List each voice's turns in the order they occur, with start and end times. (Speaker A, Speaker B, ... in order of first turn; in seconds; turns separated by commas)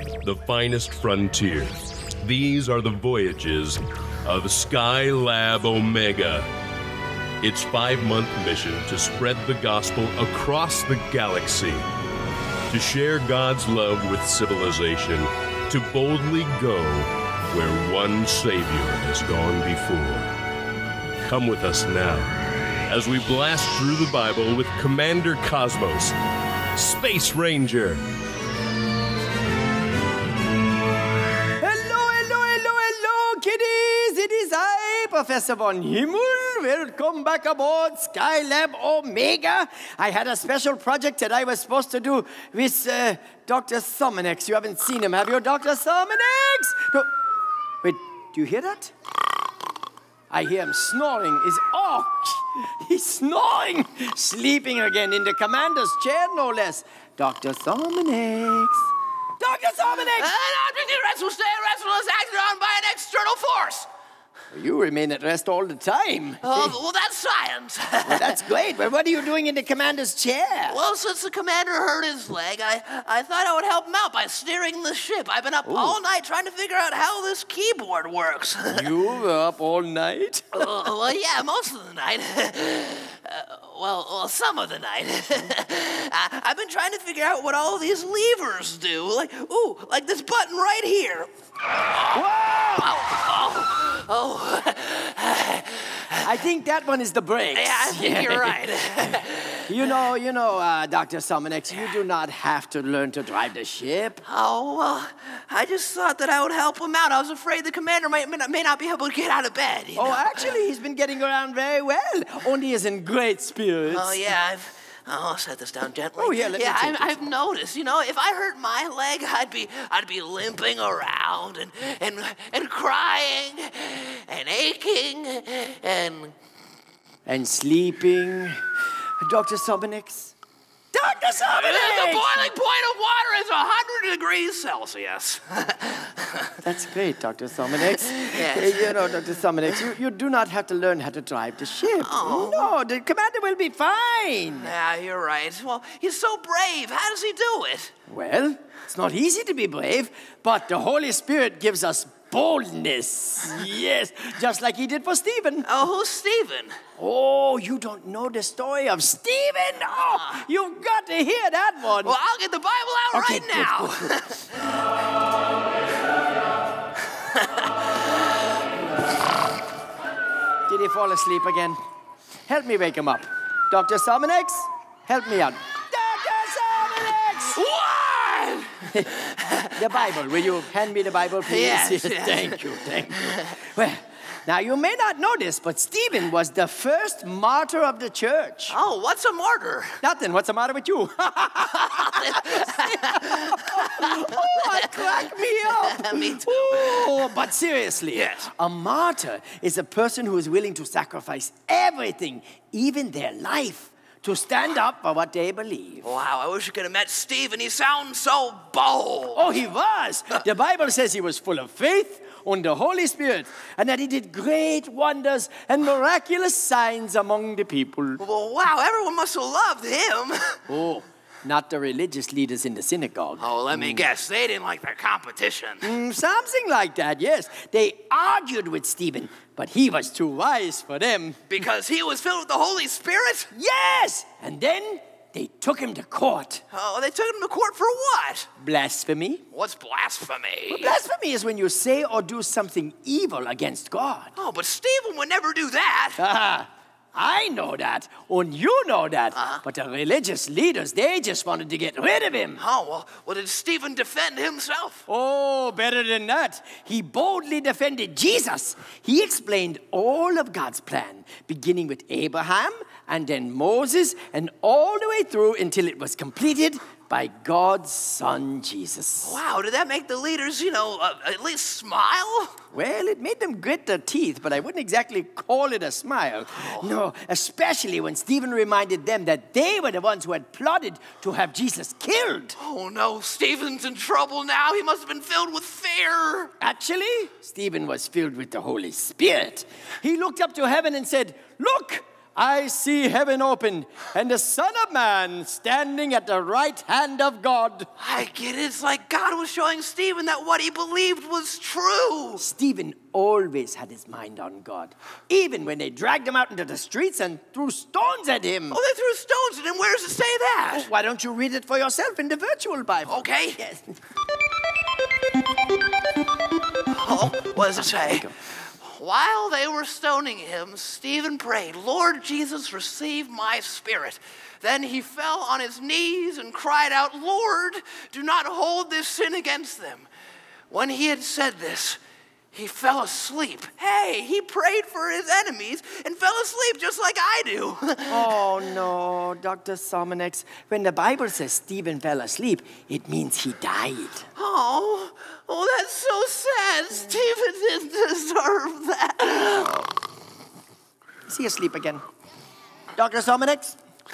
Speaker A: 0.2-1.7, Speaker A: 2.2-6.5, Speaker A: 7.4-11.8, Speaker A: 12.7-20.3, Speaker A: 21.2-22.3, Speaker A: 22.9-26.1, Speaker A: 26.8-28.0, Speaker B: 31.6-47.1, Speaker B: 47.8-48.9, Speaker B: 50.3-60.3, Speaker C: 60.1-63.9, Speaker B: 64.5-66.8, Speaker C: 66.4-68.4, Speaker B: 68.0-70.8, Speaker C: 70.7-78.9, Speaker B: 75.6-76.0, Speaker B: 78.7-80.7, Speaker C: 80.5-91.3, Speaker C: 91.9-96.2, Speaker B: 92.1-93.0, Speaker B: 96.2-104.2, Speaker C: 97.5-99.8, Speaker C: 104.2-110.5, Speaker B: 109.9-114.3, Speaker C: 113.9-126.3, Speaker B: 116.2-117.3, Speaker B: 127.2-128.6, Speaker B: 129.2-130.3, Speaker B: 130.9-132.5, Speaker C: 131.5-136.5, Speaker B: 136.6-144.7, Speaker C: 138.1-139.1, Speaker C: 142.0-142.7, Speaker C: 144.6-147.9, Speaker B: 148.1-155.7, Speaker C: 155.6-156.7, Speaker B: 157.0-162.2, Speaker C: 162.0-164.4, Speaker B: 163.1-164.1, Speaker C: 167.3-167.7, Speaker B: 170.7-171.8, Speaker B: 172.5-177.6, Speaker C: 177.5-180.2, Speaker B: 179.7-188.8, Speaker C: 181.4-183.4, Speaker C: 188.7-190.0, Speaker B: 190.0-206.1, Speaker C: 191.8-197.3, Speaker C: 198.1-198.5, Speaker C: 206.0-209.5, Speaker B: 209.3-218.2, Speaker C: 218.2-220.6, Speaker B: 220.7-224.1, Speaker C: 223.4-225.9, Speaker B: 225.8-231.4, Speaker C: 231.5-233.5, Speaker B: 233.5-236.6, Speaker C: 236.7-238.5, Speaker B: 238.6-239.4, Speaker C: 239.5-241.0, Speaker B: 240.7-244.3, Speaker C: 244.3-246.2, Speaker B: 246.2-252.6, Speaker C: 249.3-249.6, Speaker C: 252.6-255.0, Speaker B: 255.1-269.4, Speaker C: 269.2-272.5, Speaker B: 272.7-282.6, Speaker C: 276.5-276.9, Speaker C: 282.6-286.5, Speaker B: 286.6-297.9, Speaker C: 298.0-302.4, Speaker B: 302.4-308.8, Speaker C: 308.7-310.9, Speaker B: 310.7-313.9, Speaker C: 313.1-313.6, Speaker C: 316.9-330.1, Speaker B: 317.9-318.3, Speaker C: 330.7-332.0, Speaker C: 332.5-338.5, Speaker B: 338.1-344.2, Speaker C: 344.4-349.9, Speaker B: 351.3-352.0, Speaker B: 352.9-353.8